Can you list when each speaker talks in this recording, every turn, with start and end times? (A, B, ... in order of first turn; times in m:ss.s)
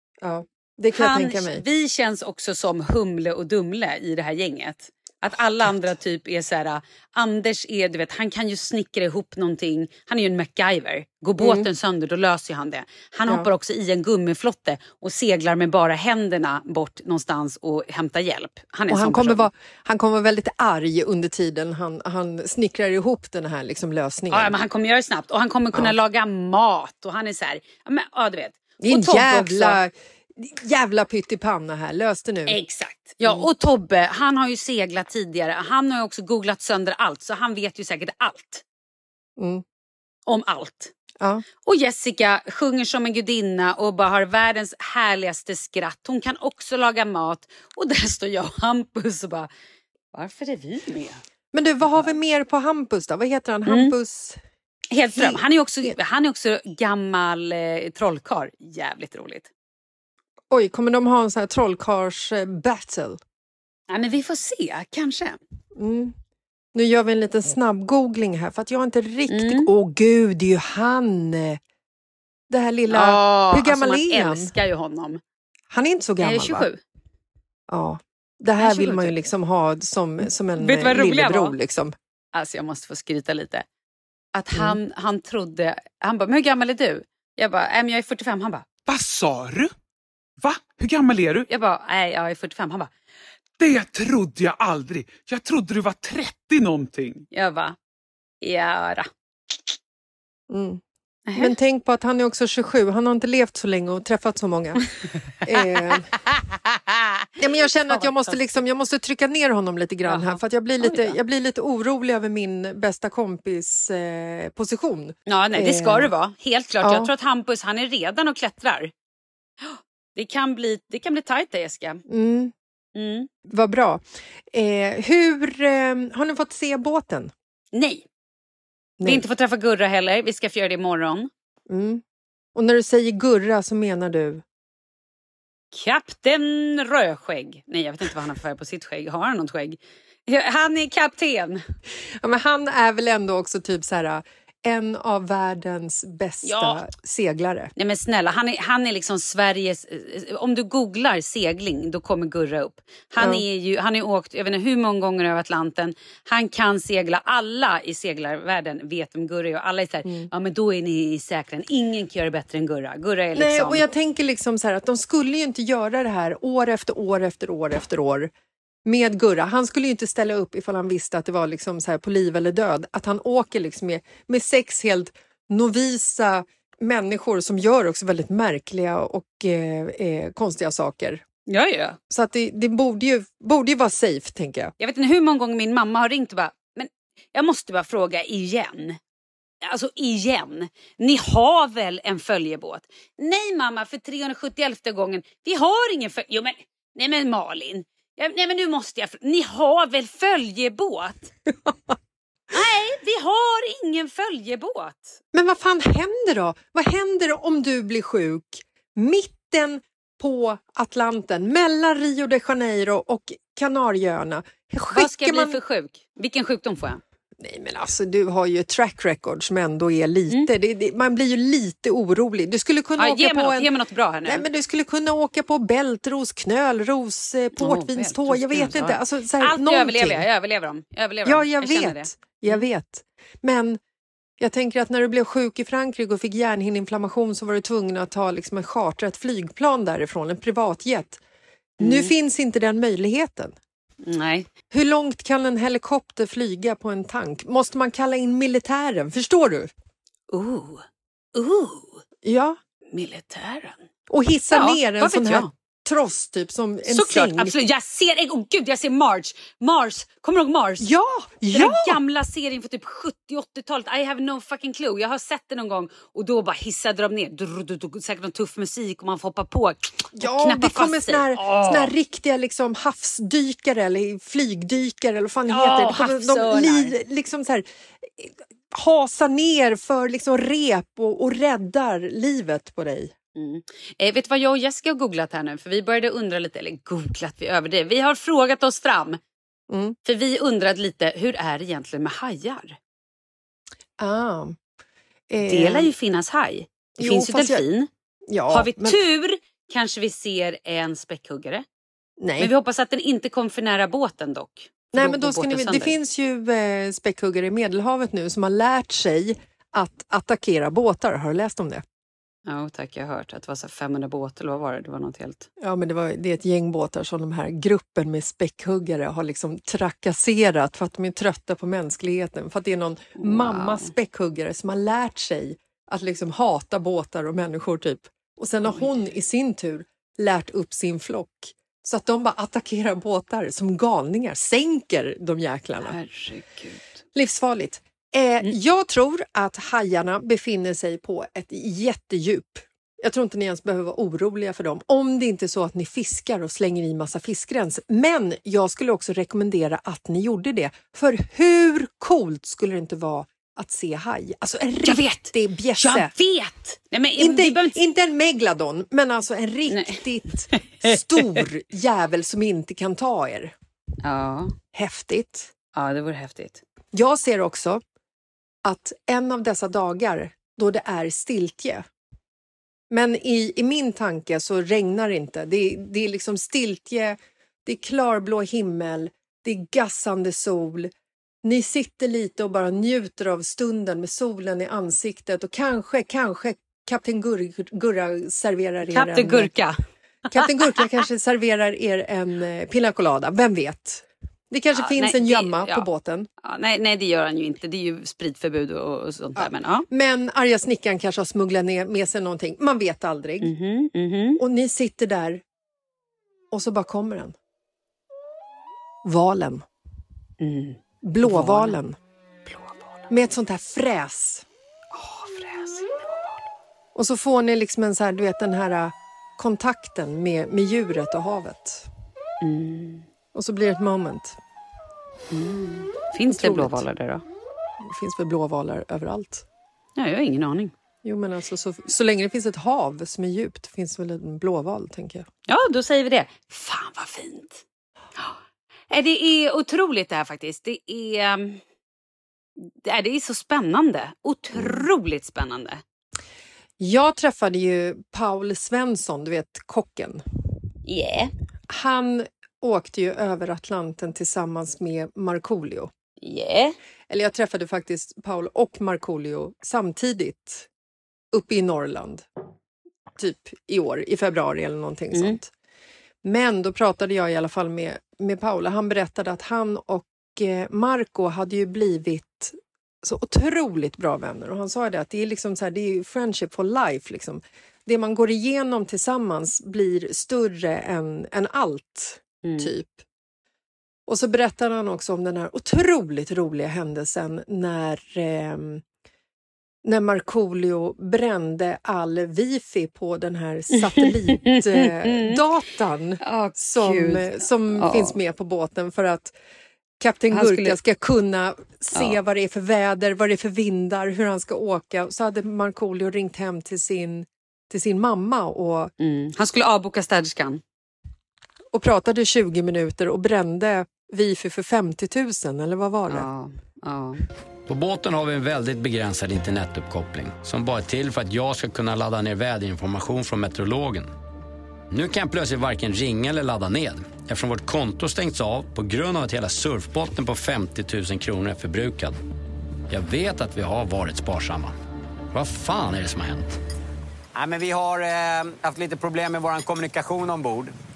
0:00.2-0:01.6 A
0:00.9-0:19.5 B
0:11.4-0:11.7 A
0:18.9-0:24.5 A
0:24.3-0:29.8 B
0:28.8-0:32.6 A
0:32.5-0:38.6 B
0:33.2-0:33.5 A
0:39.4-0:39.6 A
0:40.3-0:40.9 B
0:41.6-0:49.5 B
0:50.1-0:51.2 B
0:51.5-0:54.4 A
0:51.8-0:52.1 B
0:53.7-0:53.9 B
0:54.9-0:59.5 B
0:55.2-0:56.0 A
1:00.5-1:03.2 A
1:03.9-1:05.4 B
1:05.7-1:06.1 A
1:06.7-1:11.6 A
1:09.3-1:09.7 B
1:12.5-1:14.5 A
1:12.9-1:15.2 B
1:15.7-1:16.7 A
1:16.2-1:16.8 B
1:17.7-1:21.9 A
1:18.6-1:19.3 B
1:20.6-1:21.6 B
1:22.3-1:23.6 B
1:24.3-1:28.7 B
1:24.5-1:24.8 A
1:28.9-1:29.7 C
1:30.4-1:31.4 C
1:31.5-1:32.9 B
1:33.6-1:37.2 C
1:37.3-1:37.8 B
1:38.4-1:39.7 B
1:40.5-1:40.8 A
1:41.3-1:41.5 B
1:41.4-1:44.8 A
1:45.4-1:46.1 A
1:47.4-1:56.1 A
1:47.7-1:48.4 B
1:50.0-1:51.2 B
1:55.3-1:58.9 B
1:56.8-1:57.1 A
1:59.6-2:02.0 B
2:02.1-2:02.5 A
2:02.9-2:03.3 B
2:03.5-2:07.3 A
2:07.7-2:08.0 B
2:09.0-2:09.2 A
2:09.0-2:11.3 B
2:11.7-2:12.0 A
2:12.5-2:14.4 A
2:15.7-2:21.6 B
2:22.2-2:27.7 A
2:26.4-2:26.8 B
2:27.8-2:43.8 B
2:40.0-2:40.3 A
2:43.3-2:48.3 A
2:48.8-3:01.2 A
3:01.5-3:02.0 B
3:02.1-3:04.7 A
3:04.8-3:09.0 B
3:09.6-3:21.3 B
3:22.5-3:25.2 B
3:25.3-3:35.6 A
3:34.9-3:37.0 B
3:37.4-3:43.7 A
3:43.0-3:44.4 B
3:44.2-3:50.2 A
3:47.6-3:52.6 B
3:51.2-3:53.8 A
3:54.4-4:01.2 A
4:01.8-4:02.1 B
4:01.8-4:03.6 A
4:04.0-4:04.5 B
4:04.7-4:09.7 A
4:10.3-4:10.8 B
4:11.3-4:12.0 B
4:12.2-4:12.6 A
4:12.9-4:13.8 B
4:14.1-4:17.5 A
4:14.5-4:15.5 B
4:16.9-4:20.9 B
4:20.8-4:22.0 A
4:21.5-4:31.9 B
4:30.2-4:43.1 A
4:35.5-4:36.9 B
4:43.4-4:49.2 B
4:49.7-4:50.0 A
4:50.0-4:52.8 B
4:54.0-4:54.6 A
4:55.3-4:55.9 A
4:55.4-4:57.9 B
4:57.0-4:57.6 A
4:58.3-4:59.0 A
4:58.5-5:01.6 B
5:02.2-5:02.5 A
5:02.4-5:06.0 B
5:04.9-5:11.8 A
5:12.5-5:15.5 B
5:15.6-5:36.0 A
5:23.2-5:23.9 B
5:28.6-5:29.2 B
5:35.8-5:36.8 B
5:37.1-5:56.1 A
5:54.8-5:57.8 B
5:57.2-6:03.5 A
5:59.7-6:01.4 B
6:04.0-6:04.5 B
6:04.7-6:05.5 A
6:05.7-6:06.6 B
6:06.9-6:07.8 A
6:08.6-6:11.8 A
6:12.9-6:20.9 A
6:21.4-6:29.5 A
6:28.9-6:29.8 B
6:30.3-6:36.3 A
6:34.7-6:35.9 B
6:36.4-6:39.8 B
6:39.4-6:43.5 A
6:43.4-6:44.4 B
6:44.4-6:45.4 A
6:46.5-6:47.4 A
6:49.0-6:49.6 A
6:50.4-6:51.8 B
6:51.0-6:52.0 A
6:52.4-6:53.1 B
6:53.1-6:54.4 A
6:54.9-6:56.4 B
6:56.9-7:01.9 A
7:02.4-7:03.0 B
7:03.3-7:04.4 A
7:05.3-7:07.2 B
7:06.3-7:06.8 A
7:07.8-7:09.4 A
7:10.0-7:10.7 B
7:11.0-7:15.2 A
7:15.5-7:17.6 B
7:18.9-7:21.6 B
7:22.8-7:25.8 B
7:24.5-7:24.8 A
7:26.8-7:30.2 A
7:30.8-7:31.3 B
7:31.7-7:35.9 A
7:36.2-7:36.7 B
7:37.1-7:40.7 A
7:41.3-7:42.2 A
7:43.2-7:45.5 A
7:45.1-7:45.4 B
7:46.2-8:03.0 A
8:02.4-8:02.7 B
8:04.1-8:08.8 A
8:09.8-8:19.3 A
8:13.8-8:15.4 B
8:16.2-8:18.2 B
8:20.0-8:28.9 A
8:20.3-8:20.8 B
8:29.0-8:30.6 B
8:31.7-8:36.3 A
8:36.1-8:37.2 B
8:37.7-8:44.1 D
8:44.9-8:52.2 D
8:52.9-8:54.8 D
8:55.3-8:56.6 D
8:57.3-9:00.7 E